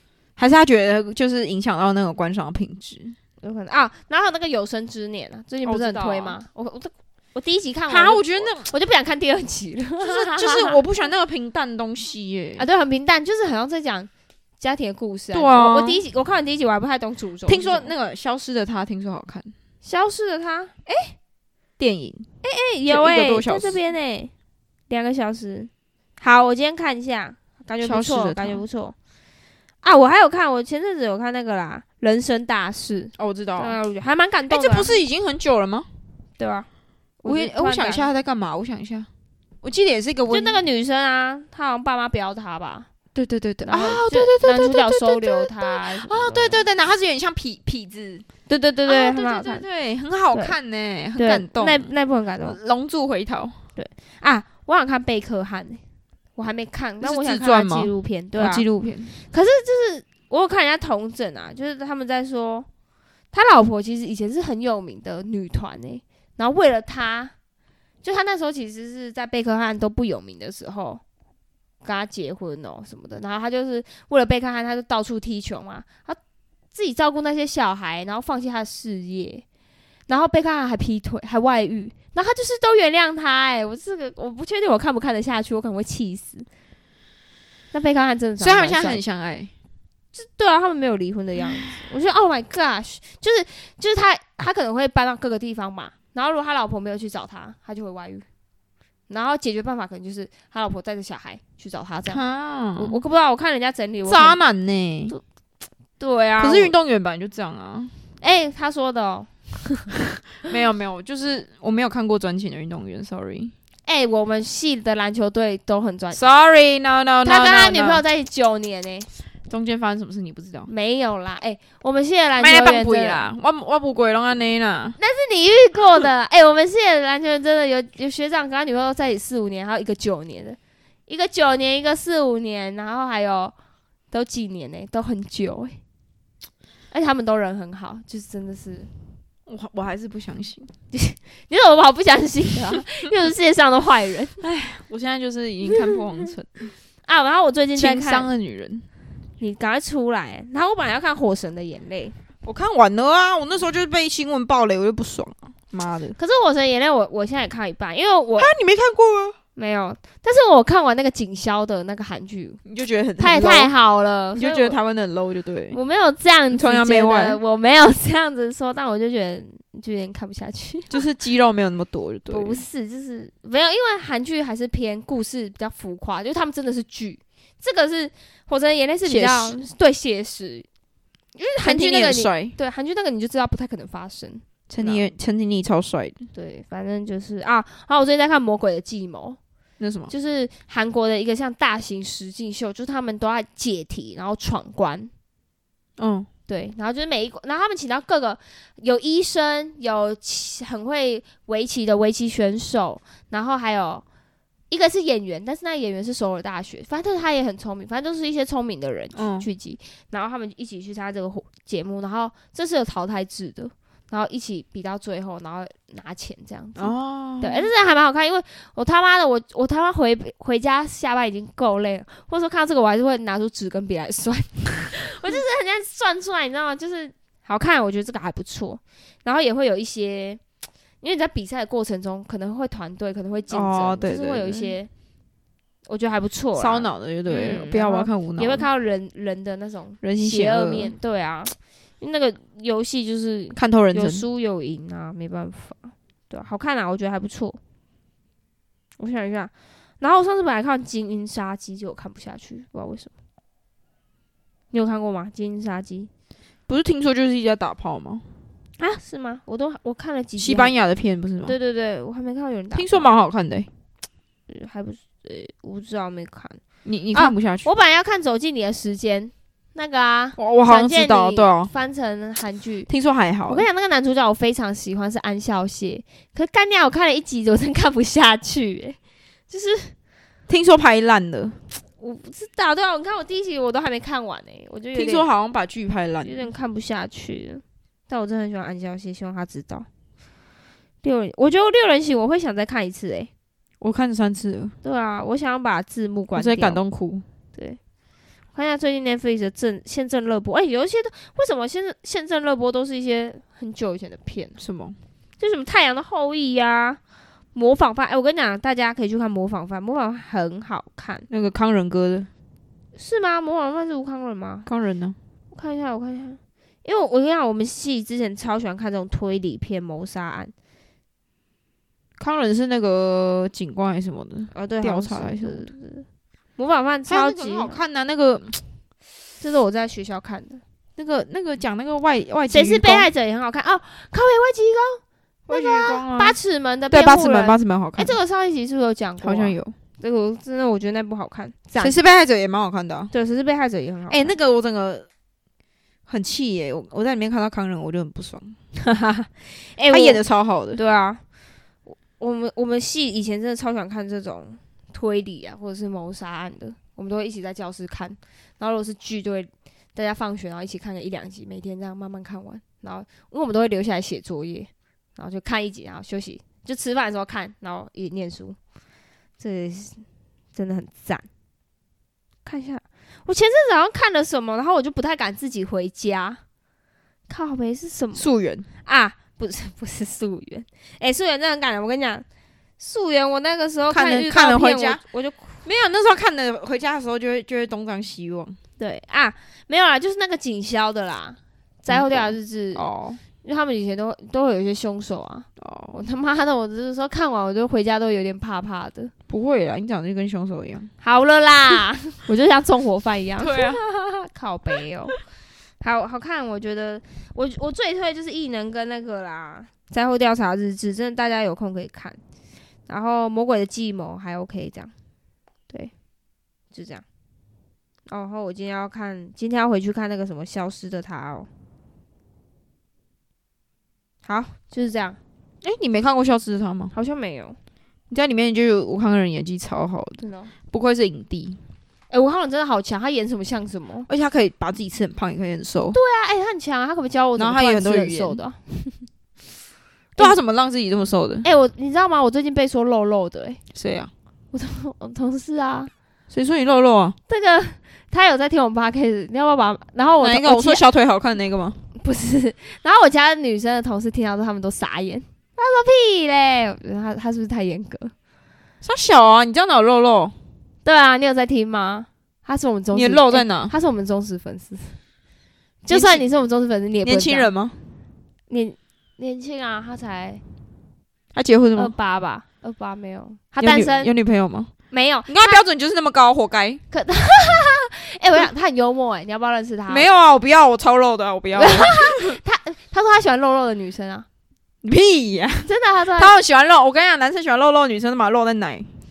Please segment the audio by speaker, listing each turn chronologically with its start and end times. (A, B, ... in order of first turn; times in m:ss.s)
0:00.4-0:03.2 A
0:03.4-0:10.8 B
0:05.6-0:06.4 A
0:07.9-0:08.7 A
0:10.0-0:12.6 A
0:12.6-0:17.9 B
0:15.3-0:16.0 A
0:17.4-0:19.5 A
0:19.8-0:21.1 B
0:21.8-0:22.2 A
0:22.4-0:24.3 B
0:22.9-0:23.8 A
0:24.9-0:28.9 B
0:27.8-0:28.6 A
0:29.8-0:35.0 B
0:33.2-0:33.8 A
0:34.5-0:35.9 A
0:36.4-0:36.7 B
0:37.2-0:38.1 B
0:37.2-0:39.1 A
0:39.6-0:40.6 A
0:40.3-0:42.9 B
0:43.1-0:48.3 A
0:43.6-0:46.6 B
0:48.5-0:49.6 B
0:48.8-0:51.9 A
0:51.2-0:52.6 B
0:52.4-0:53.6 A
0:53.8-0:55.8 B
0:56.4-1:02.7 B
0:57.0-0:59.1 A
1:03.3-1:07.3 B
1:08.0-1:11.0 B
1:11.8-1:16.2 B
1:16.7-1:19.4 B
1:20.1-1:26.5 B
1:27.7-1:29.0 B
1:28.4-1:29.5 A
1:30.1-1:38.2 B
1:39.1-1:42.2 B
1:42.1-1:43.0 A
1:42.8-1:44.4 B
1:44.0-1:45.1 A
1:46.0-1:46.7 B
1:46.4-1:47.9 A
1:48.2-1:49.9 B
1:50.4-1:53.5 A
1:53.9-1:56.2 B
1:56.1-1:58.0 A
1:57.2-1:59.1 B
1:59.5-2:00.7 A
2:00.7-2:03.2 B
2:02.4-2:05.0 A
2:05.0-2:13.5 B
2:14.1-2:15.8 B
2:16.9-2:18.9 B
2:19.5-2:20.7 A
2:20.9-2:24.4 B
2:24.4-2:26.7 A
2:27.0-2:28.3 B
2:27.8-2:28.9 A
2:29.4-2:32.2 B
2:32.4-2:36.2 A
2:36.2-2:38.5 B
2:38.4-2:39.4 A
2:39.6-2:42.6 B
2:42.6-2:43.7 A
2:43.2-2:44.8 B
2:44.3-2:45.8 A
2:45.7-2:51.0 B
2:46.5-2:47.4 A
2:50.9-2:52.6 A
2:52.3-3:00.7 B
2:59.0-2:59.6 A
3:01.4-3:05.1 B
3:01.6-3:02.5 A
3:04.7-3:06.2 A
3:06.3-3:09.4 B
3:09.8-3:10.1 A
3:10.1-3:15.1 B
3:16.0-3:16.3 A
3:16.5-3:24.0 B
3:24.7-3:50.4 B
3:29.1-3:29.5 A
3:36.8-3:37.7 A
3:51.0-3:54.9 B
3:53.5-3:54.7 A
3:55.9-4:07.6 B
3:56.6-3:58.6 A
4:00.0-4:00.9 A
4:03.5-4:04.2 A
4:09.0-4:13.1 B
4:14.7-4:16.1 B
4:16.7-4:18.2 A
4:18.8-4:20.7 B
4:20.4-4:21.6 A
4:21.4-4:23.1 B
4:22.7-4:23.7 A
4:24.5-4:26.6 B
4:26.8-4:27.7 A
4:27.1-4:32.9 B
4:30.4-4:31.7 A
4:32.9-4:33.6 A
4:33.5-4:39.0 B
4:39.5-4:39.9 B
4:40.5-4:41.6 A
4:42.0-4:45.2 B
4:44.9-4:46.5 A
4:46.2-4:49.9 B
4:51.0-4:53.3 B
4:53.8-4:54.7 A
4:54.8-4:56.8 B
4:56.3-4:57.2 A
4:58.5-5:04.5 B
5:04.6-5:05.0 A
5:05.4-5:07.0 B
5:07.5-5:11.3 B
5:11.3-5:12.3 A
5:12.9-5:14.7 B
5:14.6-5:15.2 A
5:15.5-5:20.5 B
5:22.2-5:25.7 A
5:24.5-5:26.0 B
5:26.6-5:27.8 B
5:27.1-5:28.6 A
5:29.4-5:30.6 B
5:31.0-5:33.1 A
5:32.5-5:42.0 B
5:35.5-5:36.4 A
5:36.9-5:38.2 A
5:39.2-5:39.7 A
5:41.8-5:43.1 A
5:43.1-5:44.3 B
5:44.1-5:45.0 A
5:46.1-5:48.6 A
5:48.8-5:50.2 B
5:49.9-5:50.8 A
5:50.7-5:51.2 B
5:51.8-6:08.6 B
6:09.4-6:11.3 B
6:12.4-6:16.4 B
6:17.3-6:18.3 B
6:18.2-6:18.6 A
6:18.8-6:22.2 B
6:22.8-6:25.6 B
6:23.9-6:25.0 A
6:25.6-6:28.6 A
6:28.8-6:32.9 B
6:31.9-6:33.2 A
6:33.4-6:39.1 B
6:35.6-6:36.0 A
6:39.3-6:40.9 A
6:41.0-6:45.2 B
6:43.4-6:43.8 A
6:45.8-6:52.2 B
6:52.9-6:54.9 B
6:56.7-6:57.0 B
6:58.1-7:01.5 B
7:04.2-7:05.2 B
7:05.6-7:06.9 A
7:06.9-7:07.6 B
7:08.1-7:11.6 A
7:10.2-7:10.5 B
7:12.1-7:14.1 B
7:14.1-7:16.0 A
7:15.9-7:19.1 B
7:17.4-7:18.4 A
7:20.2-7:21.5 A
7:21.4-7:23.6 B
7:23.7-7:24.1 A
7:24.5-7:25.9 B
7:26.3-7:27.2 A
7:27.3-7:30.8 B
7:30.2-7:31.8 A
7:32.0-7:38.1 B
7:38.8-7:40.3 A
7:40.8-7:45.0 B
7:42.9-7:43.7 A
7:45.8-7:47.5 B
7:45.9-7:46.2 A
7:47.0-7:47.8 A
7:48.5-7:50.4 B
7:51.3-7:51.9 A
7:51.8-7:54.1 B
7:53.6-7:54.7 A
7:54.9-7:55.6 B
7:55.3-7:56.8 A
7:56.9-8:00.0 B
7:59.9-8:02.4 A
8:01.5-8:04.2 B
8:04.8-8:08.9 A
8:05.6-8:06.3 B